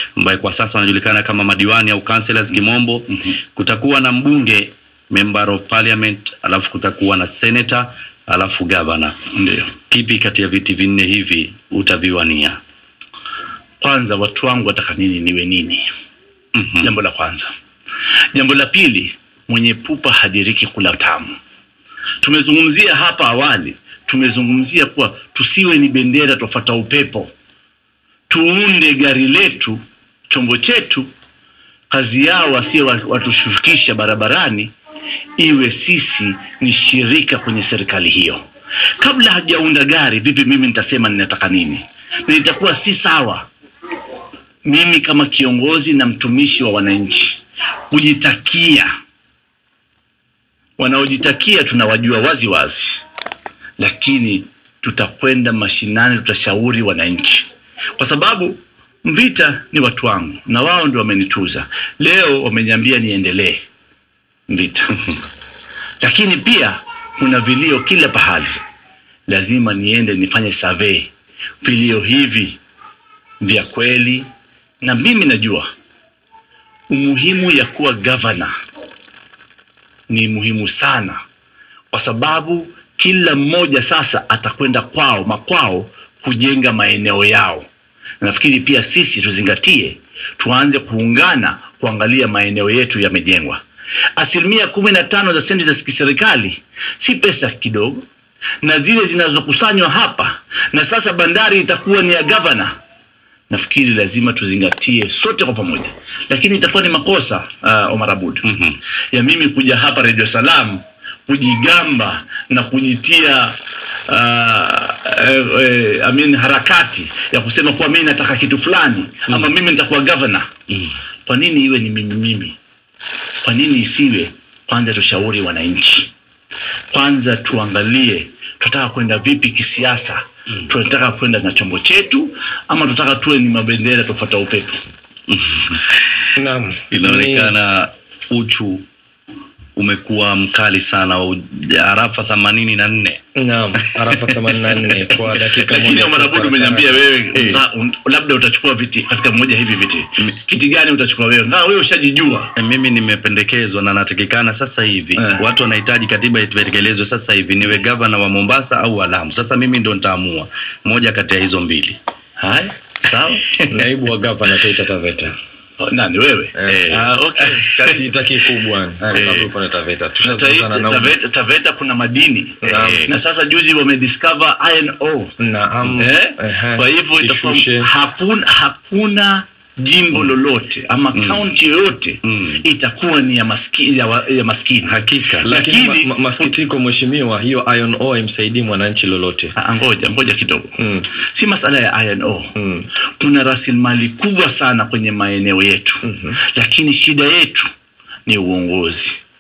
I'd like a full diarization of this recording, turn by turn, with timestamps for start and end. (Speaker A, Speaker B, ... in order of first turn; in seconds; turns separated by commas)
Speaker A: 0.2-9.2, Speaker B: 9.3-9.7, Speaker A: 9.9-12.6, Speaker B: 13.8-15.9, Speaker A: 16.6-16.9, Speaker B: 16.8-17.5, Speaker B: 18.3-21.4, Speaker B: 22.2-27.3, Speaker B: 28.3-31.1, Speaker B: 31.9-34.7, Speaker B: 35.4-38.4, Speaker B: 39.0-43.5, Speaker B: 44.6-47.4, Speaker B: 47.9-48.9, Speaker B: 50.8-53.0, Speaker B: 53.8-63.6, Speaker B: 64.5-65.0, Speaker B: 66.0-68.6, Speaker B: 69.3-71.1, Speaker B: 71.6-72.6, Speaker B: 73.4-74.3, Speaker B: 74.8-75.7, Speaker B: 76.9-78.5, Speaker B: 80.1-81.2, Speaker B: 81.9-87.7, Speaker B: 88.2-93.6, Speaker B: 94.2-98.0, Speaker B: 98.6-102.8, Speaker B: 103.5-108.5, Speaker A: 108.5-108.8, Speaker B: 109.1-113.6, Speaker B: 114.1-120.5, Speaker B: 121.3-122.6, Speaker B: 123.4-126.1, Speaker B: 126.9-134.8, Speaker A: 135.3-135.8, Speaker C: 136.4-137.5, Speaker A: 136.9-138.8, Speaker A: 139.8-143.2, Speaker C: 143.4-147.6, Speaker B: 145.6-152.5, Speaker A: 152.6-162.0, Speaker B: 155.2-155.4, Speaker B: 162.4-163.5, Speaker C: 163.7-165.3, Speaker B: 165.8-168.0, Speaker C: 166.6-171.2, Speaker B: 169.1-169.4, Speaker A: 169.2-169.4, Speaker B: 170.2-175.3, Speaker C: 172.6-173.1, Speaker A: 172.7-173.1, Speaker C: 175.4-177.9, Speaker B: 176.0-186.5, Speaker A: 182.2-182.6, Speaker A: 184.8-185.3, Speaker C: 185.3-189.5, Speaker B: 189.6-190.8, Speaker C: 190.8-191.1, Speaker B: 191.4-192.5, Speaker C: 192.6-192.9, Speaker B: 193.2-196.0, Speaker C: 196.0-196.4, Speaker B: 196.5-197.7, Speaker B: 198.3-199.2